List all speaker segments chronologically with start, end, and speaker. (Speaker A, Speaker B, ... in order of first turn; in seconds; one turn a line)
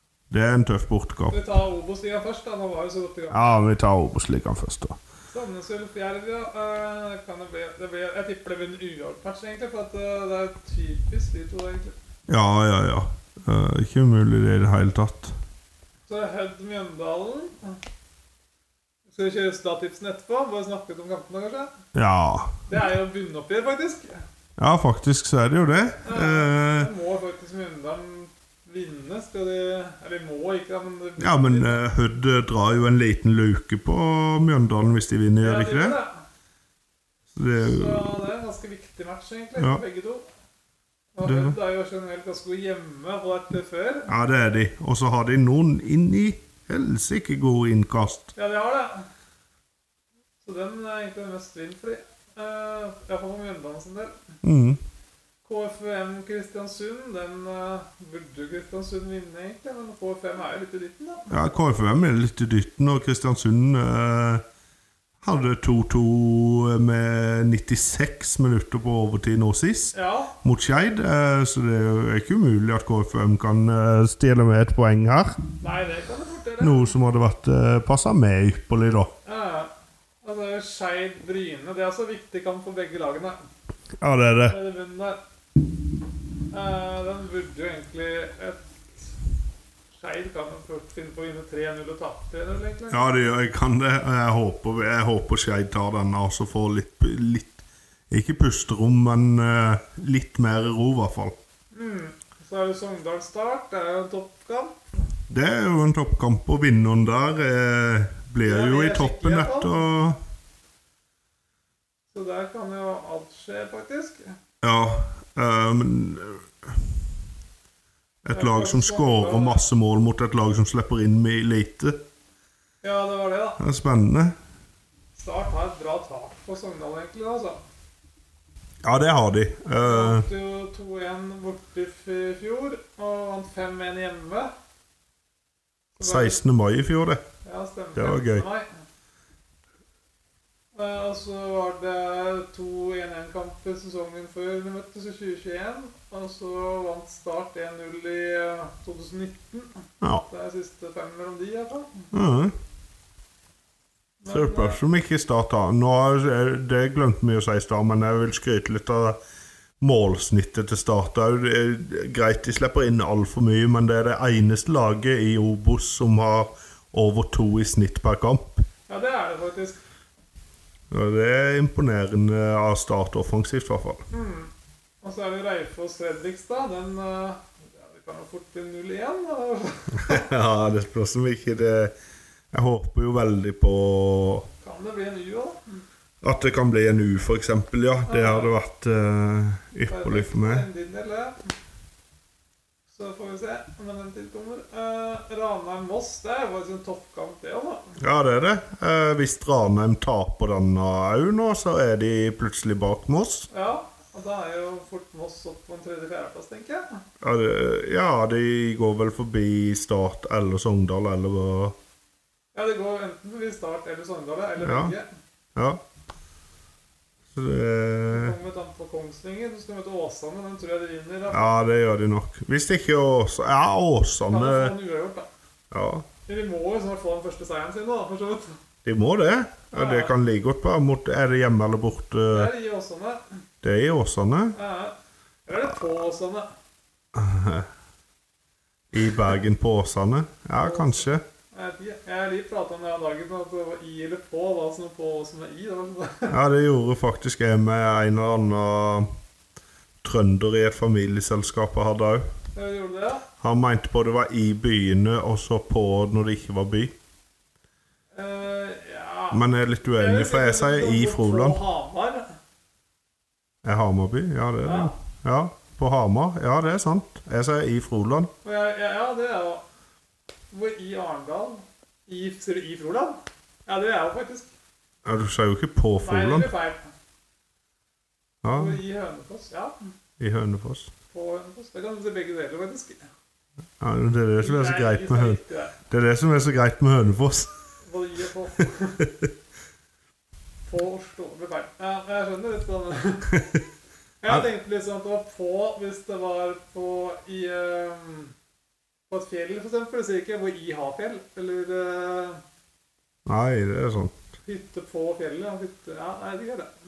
Speaker A: 0.3-1.4
Speaker B: 1.3-3.5
Speaker A: 3.3-5.0
Speaker B: 5.3-11.9
Speaker A: 12.3-15.3
Speaker B: 16.1-17.8
Speaker B: 19.1-21.7
Speaker A: 21.9-22.7
Speaker B: 22.7-24.2
Speaker A: 24.6-26.9
Speaker B: 26.0-31.8
Speaker A: 31.2-36.0
Speaker B: 35.4-36.2
Speaker A: 37.3-38.1
Speaker B: 37.5-40.2
Speaker B: 41.1-44.1
Speaker A: 41.2-41.5
Speaker A: 44.1-48.3
Speaker B: 48.4-49.1
Speaker B: 50.4-54.2
Speaker A: 54.4-54.8
Speaker B: 55.4-61.3
Speaker A: 61.3-64.4
Speaker A: 65.2-75.4
Speaker B: 69.9-70.3
Speaker B: 75.6-76.9
Speaker A: 76.6-79.1
Speaker B: 79.2-83.4
Speaker A: 84.0-84.6
Speaker B: 84.5-85.2
Speaker B: 86.5-89.1
Speaker B: 89.9-93.3
Speaker A: 92.9-101.3
Speaker B: 101.7-104.8
Speaker A: 105.3-110.2
Speaker B: 108.4-109.8
Speaker B: 112.1-114.3
Speaker A: 114.6-116.7
Speaker A: 118.2-122.0
Speaker B: 118.3-119.7
Speaker B: 122.8-123.6
Speaker A: 123.6-124.3
Speaker B: 125.1-127.6
Speaker A: 128.8-130.3
Speaker B: 129.8-134.5
Speaker B: 135.9-136.4
Speaker A: 136.0-137.2
Speaker B: 137.4-138.7
Speaker A: 137.9-138.4
Speaker B: 140.7-152.1
Speaker A: 152.1-152.5
Speaker B: 154.2-154.8
Speaker A: 154.3-159.2
Speaker A: 159.8-168.6
Speaker B: 168.9-169.8
Speaker A: 170.9-174.1
Speaker B: 174.1-180.3
Speaker A: 179.9-181.9
Speaker A: 182.5-184.5
Speaker B: 184.6-185.8
Speaker A: 186.2-190.7
Speaker B: 188.1-188.5
Speaker B: 189.9-191.5
Speaker B: 192.9-198.0
Speaker A: 198.0-203.5
Speaker B: 203.5-207.0
Speaker A: 207.2-211.8
Speaker B: 212.5-215.1
Speaker A: 214.6-214.9
Speaker A: 215.6-215.8
Speaker A: 217.3-218.3
Speaker B: 218.1-221.6
Speaker A: 221.3-224.7
Speaker B: 224.3-225.3
Speaker A: 225.7-226.1
Speaker B: 226.2-228.6
Speaker A: 228.8-232.5
Speaker B: 229.7-230.1
Speaker B: 232.3-233.2
Speaker A: 233.6-234.6
Speaker B: 234.5-236.5
Speaker A: 237.1-237.7
Speaker A: 238.9-241.2
Speaker B: 240.6-246.3
Speaker A: 246.3-249.1
Speaker A: 250.0-252.2
Speaker B: 252.5-253.2
Speaker A: 253.4-256.9
Speaker B: 258.1-259.4
Speaker A: 259.3-261.6
Speaker B: 260.0-262.3
Speaker A: 263.6-268.3
Speaker B: 264.6-264.9
Speaker B: 268.4-269.6
Speaker B: 270.5-274.5
Speaker A: 275.0-276.5
Speaker B: 276.0-276.9
Speaker A: 278.4-278.8
Speaker B: 278.5-279.9
Speaker A: 280.2-280.9
Speaker B: 281.1-283.1
Speaker A: 283.8-287.5
Speaker B: 284.4-285.8
Speaker B: 287.8-289.1
Speaker B: 290.6-293.4
Speaker B: 294.2-298.3
Speaker B: 299.1-302.4
Speaker A: 303.2-304.1
Speaker B: 304.4-306.7